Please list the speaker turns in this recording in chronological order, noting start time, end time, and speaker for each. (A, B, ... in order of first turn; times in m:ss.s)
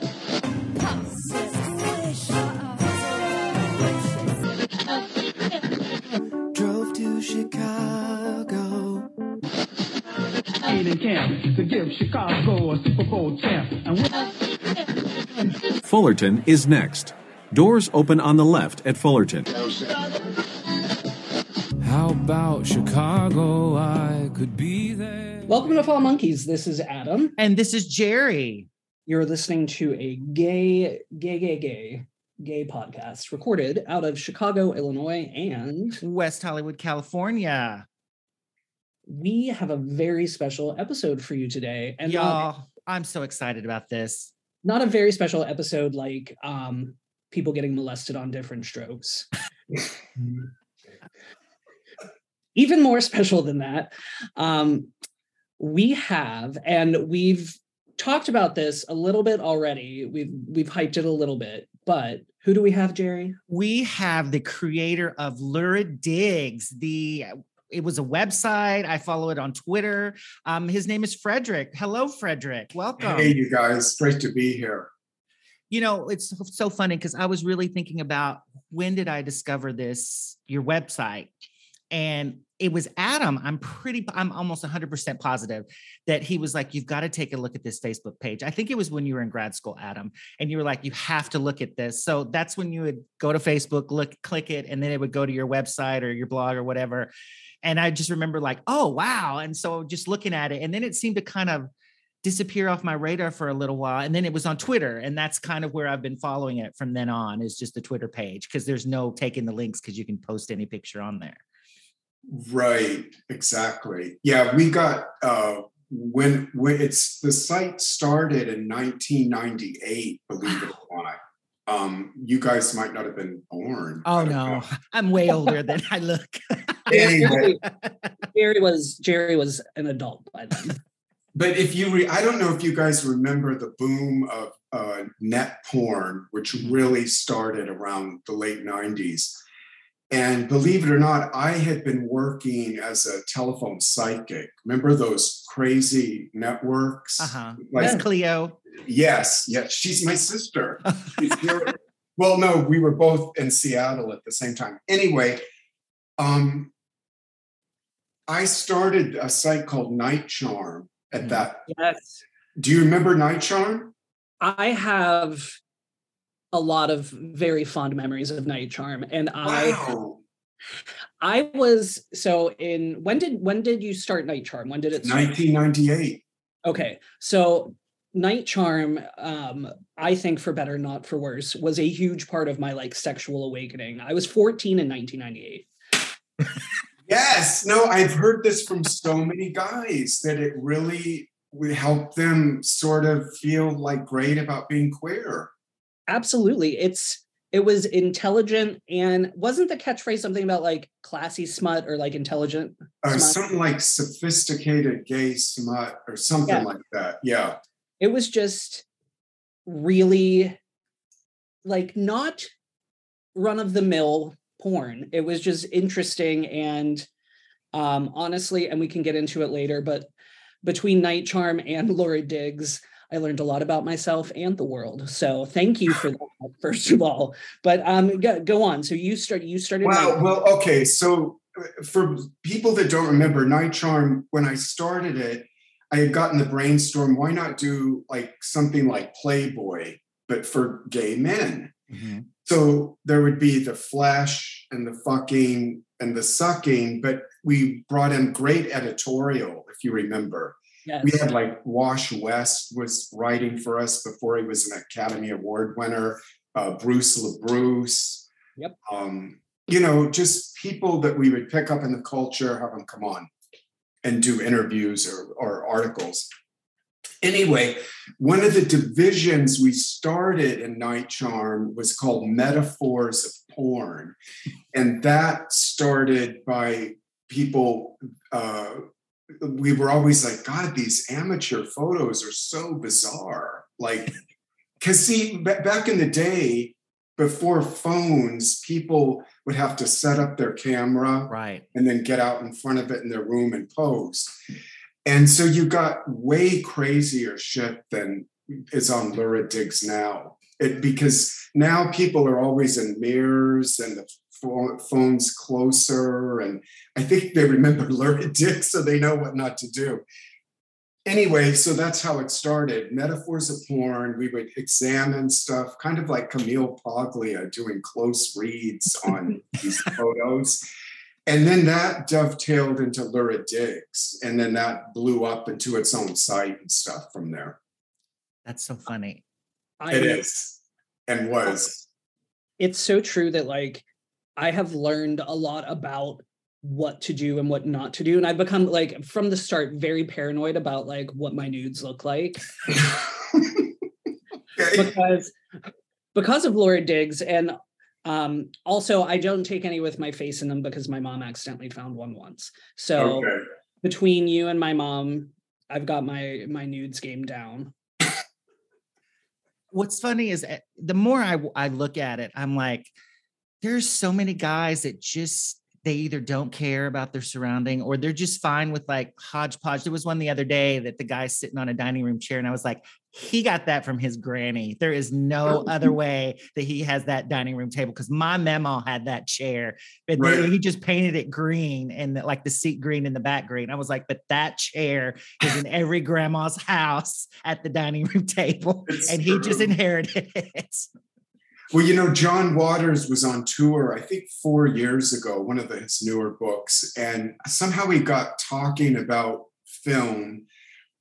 0:06.5-0:09.1 A
0:10.6-0:14.2 B
0:15.8-0:19.6 C
0:21.8-0:25.8 A
0:25.5-0:27.4 D
0:27.4-0:28.7 E
0:29.1-0:36.0 D
0:36.0-0:37.8 E
0:39.1-0:42.4 D
0:42.0-0:44.3 E
0:44.6-0:49.3 D
0:52.6-0:54.9 D
0:55.6-1:03.4 D
1:03.5-1:13.4 E
1:13.0-1:14.9 F
1:15.7-1:21.3 E
1:21.9-1:37.1 E
1:37.6-1:41.7 E
1:42.2-1:51.4 E
1:52.3-2:04.7 F
2:04.0-2:08.1 E
2:06.9-2:07.6 F
2:06.9-2:07.6 D
2:08.3-2:10.8 D
2:11.3-2:19.4 F
2:20.1-2:28.0 F
2:27.2-2:28.6 E
2:28.8-2:35.4 F
2:31.0-2:31.4 E
2:36.2-2:36.7 F
2:38.3-2:41.7 F
2:41.2-2:41.5 E
2:41.7-2:42.2 D
2:42.6-2:43.9 F
2:44.4-2:45.6 D
2:46.5-2:49.8 D
2:49.4-2:50.2 F
2:51.2-2:55.3 D
2:55.0-2:56.2 F
2:56.6-3:05.7 D
3:07.1-3:15.5 F
3:16.1-3:23.4 D
3:23.0-3:27.6 F
3:28.0-3:28.9 D
3:29.7-3:30.6 D
3:31.6-3:32.5 D
3:33.4-3:37.1 D
3:37.7-3:40.1 D
3:40.6-3:50.2 D
3:49.8-4:01.7 F
4:01.9-4:02.3 E
4:02.4-4:18.3 F
4:10.9-4:11.2 D
4:18.8-4:23.3 F
4:24.0-4:26.3 F
4:27.2-4:34.2 F
4:34.7-4:44.2 F
4:44.8-4:54.4 F
4:51.3-4:51.6 E
4:55.0-5:10.0 F
5:11.1-5:20.6 F
5:21.3-5:27.6 F
5:28.4-5:29.2 E
5:29.8-5:30.2 D
5:29.9-5:31.8 F
5:32.6-5:33.8 D
5:34.4-5:42.7 D
5:42.7-5:43.7 F
5:44.6-5:44.9 F
5:44.7-5:45.3 D
5:46.2-5:53.3 D
5:53.0-5:53.4 F
5:53.8-5:57.7 D
5:59.7-6:02.9 E
6:03.6-6:30.9 E
6:20.2-6:20.5 F
6:28.9-6:29.7 F
6:31.7-6:40.5 F